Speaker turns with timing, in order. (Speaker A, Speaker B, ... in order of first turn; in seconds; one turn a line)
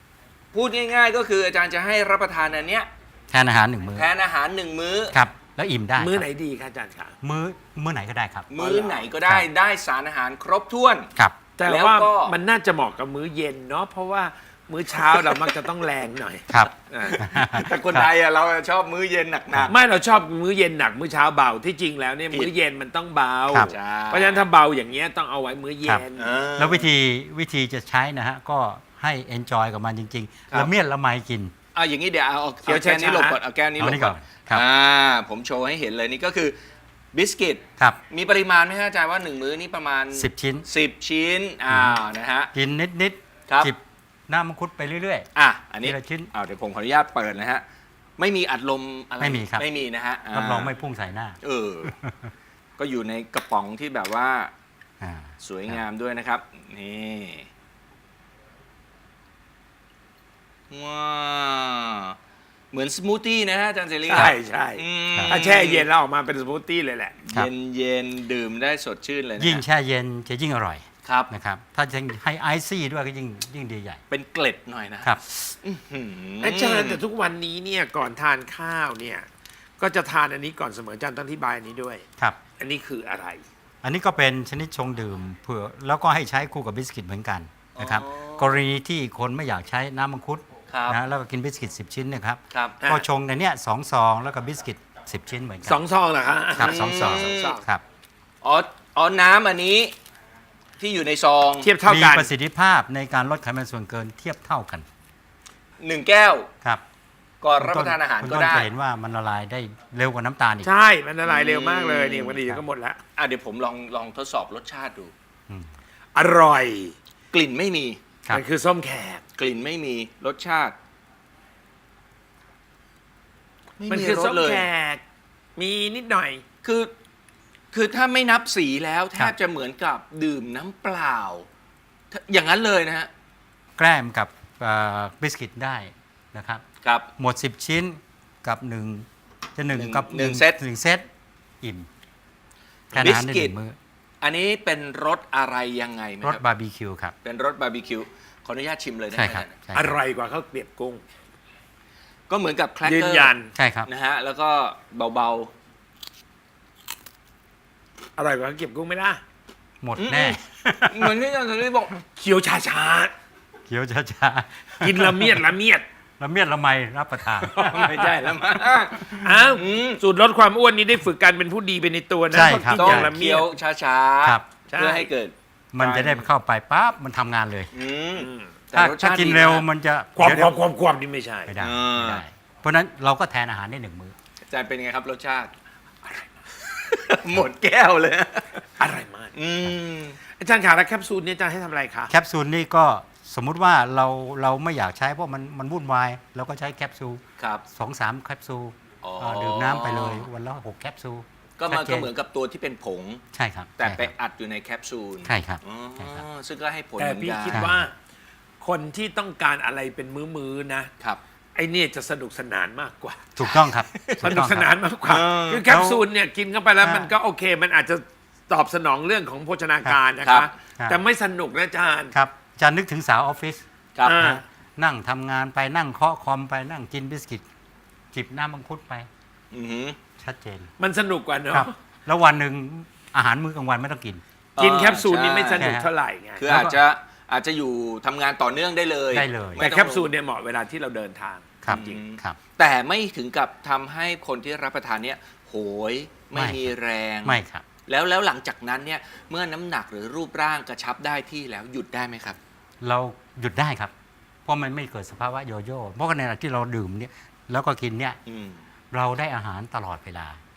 Speaker A: 0.5-2.9
Speaker B: 3.3-4.1
Speaker A: 3.9-5.2
Speaker B: 5.1-6.3
Speaker C: 6.0-7.1
Speaker B: 7.2-8.6
Speaker A: 8.5-12.4
Speaker C: 11.6-16.6
Speaker A: 15.1-15.6
Speaker B: 16.5-18.1
Speaker A: 16.7-19.8
Speaker C: 19.7-26.3
Speaker A: 23.6-24.5
Speaker A: 26.2-26.9
Speaker B: 26.6-31.5
Speaker A: 31.7-36.6
Speaker C: 32.7-33.4
Speaker B: 33.8-34.6
Speaker A: 37.1-42.5
Speaker B: 40.1-40.7
Speaker B: 41.7-42.0
Speaker B: 42.5-45.3
Speaker A: 43.5-43.7
Speaker A: 45.4-47.6
Speaker B: 45.8-46.3
Speaker A: 48.2-50.7
Speaker B: 49.2-49.7
Speaker B: 50.3-52.3
Speaker A: 51.4-51.9
Speaker A: 52.8-54.5
Speaker B: 55.0-55.7
Speaker A: 55.4-57.5
Speaker A: 60.7-62.2
Speaker A: 62.7-65.9
Speaker C: 64.1-67.2
Speaker A: 67.2-69.6
Speaker B: 69.4-74.0
Speaker A: 71.0-71.3
Speaker A: 74.1-77.0
Speaker C: 76.4-79.2
Speaker C: 79.8-83.4
Speaker B: 83.8-95.8
Speaker A: 87.8-88.6
Speaker A: 90.7-91.0
Speaker A: 92.5-92.9
Speaker C: 95.6-97.6
Speaker B: 96.6-97.8
Speaker A: 96.6-97.6
Speaker A: 98.4-99.9
Speaker A: 100.8-101.7
Speaker C: 101.6-102.3
Speaker B: 101.8-104.9
Speaker A: 105.8-106.5
Speaker A: 107.4-108.7
Speaker B: 107.6-110.7
Speaker C: 110.6-113.0
Speaker A: 111.2-112.4
Speaker A: 113.2-115.1
Speaker C: 116.2-116.9
Speaker A: 117.3-118.0
Speaker C: 118.3-119.2
Speaker A: 119.3-120.8
Speaker A: 123.8-124.7
Speaker C: 123.9-125.0
Speaker C: 125.6-126.4
Speaker A: 126.6-126.9
Speaker A: 127.7-131.5
Speaker A: 132.1-133.1
Speaker B: 133.8-136.6
Speaker A: 136.8-137.1
Speaker B: 137.2-141.1
Speaker A: 139.7-140.6
Speaker B: 141.6-141.9
Speaker B: 142.9-143.8
Speaker A: 142.9-143.6
Speaker A: 144.2-146.4
Speaker B: 146.2-147.1
Speaker A: 147.2-149.6
Speaker B: 149.1-149.9
Speaker C: 149.7-151.0
Speaker A: 152.3-155.5
Speaker C: 152.8-153.5
Speaker B: 153.6-153.9
Speaker C: 158.2-159.2
Speaker B: 159.8-161.2
Speaker A: 160.0-162.0
Speaker C: 162.1-163.1
Speaker B: 163.7-165.4
Speaker C: 164.8-165.9
Speaker B: 166.2-168.1
Speaker A: 167.4-170.0
Speaker C: 169.1-173.5
Speaker B: 172.3-173.1
Speaker A: 172.6-176.3
Speaker C: 174.7-175.0
Speaker B: 175.7-177.7
Speaker A: 177.7-179.7
Speaker C: 178.2-178.6
Speaker B: 178.7-180.6
Speaker C: 180.2-182.2
Speaker B: 181.5-184.1
Speaker A: 181.6-182.2
Speaker A: 184.5-185.5
Speaker A: 186.5-188.8
Speaker C: 188.8-189.3
Speaker A: 189.3-190.2
Speaker C: 190.2-192.1
Speaker B: 192.1-202.1
Speaker A: 197.4-197.6
Speaker A: 199.0-200.3
Speaker A: 201.6-203.2
Speaker B: 203.3-204.1
Speaker A: 203.8-207.7
Speaker B: 205.2-206.2
Speaker C: 207.0-207.9
Speaker B: 207.5-207.9
Speaker C: 208.6-210.9
Speaker C: 211.5-213.3
Speaker B: 213.4-214.7
Speaker A: 213.4-214.4
Speaker C: 214.2-222.1
Speaker A: 215.0-215.7
Speaker B: 215.6-216.0
Speaker B: 216.8-217.1
Speaker A: 220.2-220.5
Speaker B: 222.1-227.5
Speaker C: 224.0-224.4
Speaker B: 228.1-229.1
Speaker A: 229.5-230.0
Speaker B: 230.2-230.7
Speaker C: 230.8-231.7
Speaker B: 231.5-234.2
Speaker A: 234.6-235.7
Speaker C: 234.6-236.5
Speaker B: 235.6-235.9
Speaker A: 236.4-240.1
Speaker B: 236.5-236.8
Speaker B: 239.1-239.7
Speaker C: 239.5-242.0
Speaker B: 241.6-242.4
Speaker A: 241.6-252.4
Speaker B: 246.3-247.6
Speaker B: 252.8-253.9
Speaker B: 254.5-258.2
Speaker A: 258.2-258.6
Speaker B: 258.9-260.4